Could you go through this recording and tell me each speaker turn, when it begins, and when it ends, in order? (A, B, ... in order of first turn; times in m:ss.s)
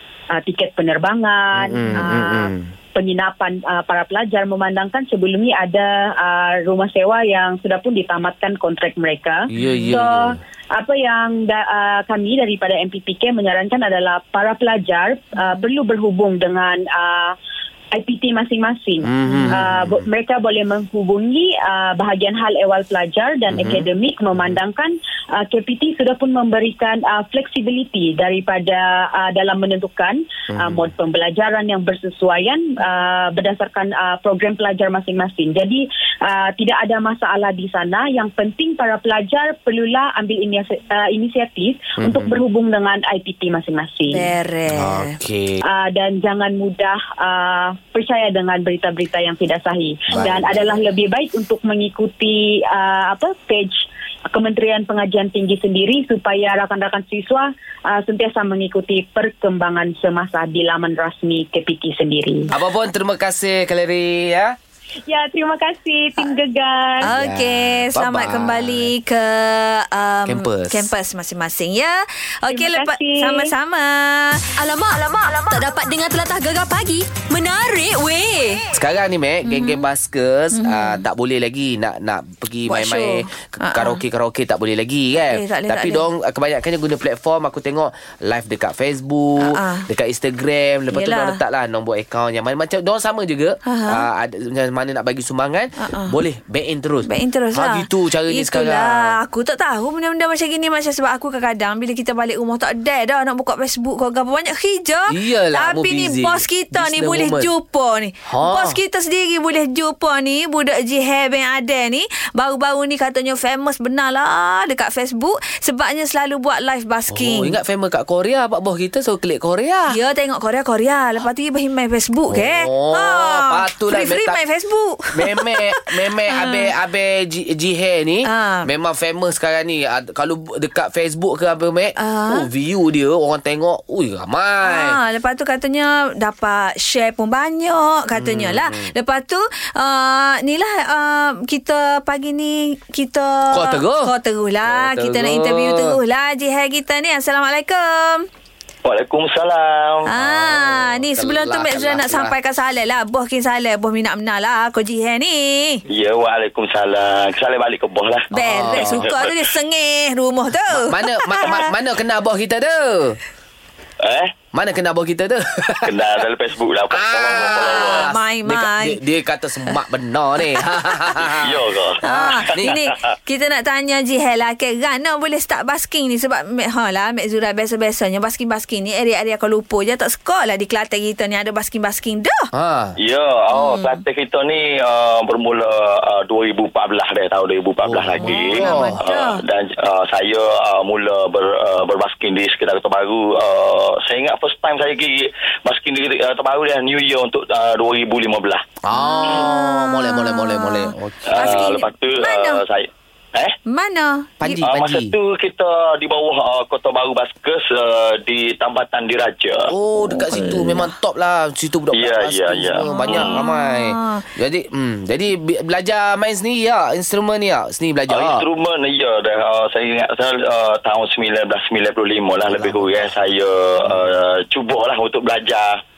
0:00.3-0:17.3 A
0:01.5-0:02.7 B
0:09.5-0:10.4 B
0:09.6-0:09.9 C
0:17.9-0:44.3 A
0:19.0-0:20.0 B
0:19.2-0:19.6 C
0:23.5-0:24.6 B
0:30.5-0:30.9 B
0:42.0-0:42.4 B
0:44.1-0:45.1 C
0:44.7-0:45.6 B
0:45.6-1:02.5 A
0:50.1-0:50.9 B
1:02.5-1:04.6 B
1:05.0-1:07.1 A
1:07.0-1:14.5 C
1:07.0-1:08.9 B
1:10.3-1:10.9 B
1:12.5-1:13.5 A
1:14.6-1:18.6 D
1:18.7-1:39.1 B
1:19.4-1:19.8 C
1:20.5-1:21.0 C
1:22.7-1:24.0 C
1:25.3-1:26.0 C
1:29.4-1:29.9 C
1:30.9-1:31.4 C
1:33.6-1:34.0 C
1:35.8-1:36.2 C
1:37.1-1:57.5 C
1:45.1-1:47.5 B
1:48.3-1:48.8 B
1:57.1-2:00.0 B
1:59.9-2:06.7 C
2:02.3-2:04.4 B
2:05.1-2:15.0 B
2:08.2-2:08.7 C
2:12.0-2:12.4 C
2:14.6-2:28.3 C
2:18.1-2:18.9 B
2:23.5-2:24.1 B
2:24.6-2:26.0 B
2:28.8-2:30.1 E
2:30.1-2:35.8 C
2:30.1-2:32.3 B
2:35.9-2:39.3 E
2:38.3-2:39.1 B
2:38.3-2:41.7 C
2:40.7-2:43.2 B
2:44.0-2:44.3 E
2:44.5-2:45.9 B
2:45.8-2:48.1 E
2:46.9-2:52.8 B
2:47.5-2:49.0 C
2:51.4-2:52.0 E
2:52.0-3:02.5 C
3:02.5-3:03.0 B
3:03.0-3:18.6 E
3:03.5-3:04.0 C
3:07.8-3:09.0 B
3:08.2-3:09.4 C
3:18.8-3:21.7 B
3:18.9-3:22.6 C
3:21.3-3:23.5 E
3:23.7-3:24.6 C
3:24.4-3:25.1 B
3:24.6-3:29.7 E
3:29.7-3:38.4 B
3:30.1-3:30.9 C
3:31.9-3:33.3 E
3:32.8-3:34.2 C
3:38.1-3:45.8 E
3:42.5-3:43.2 B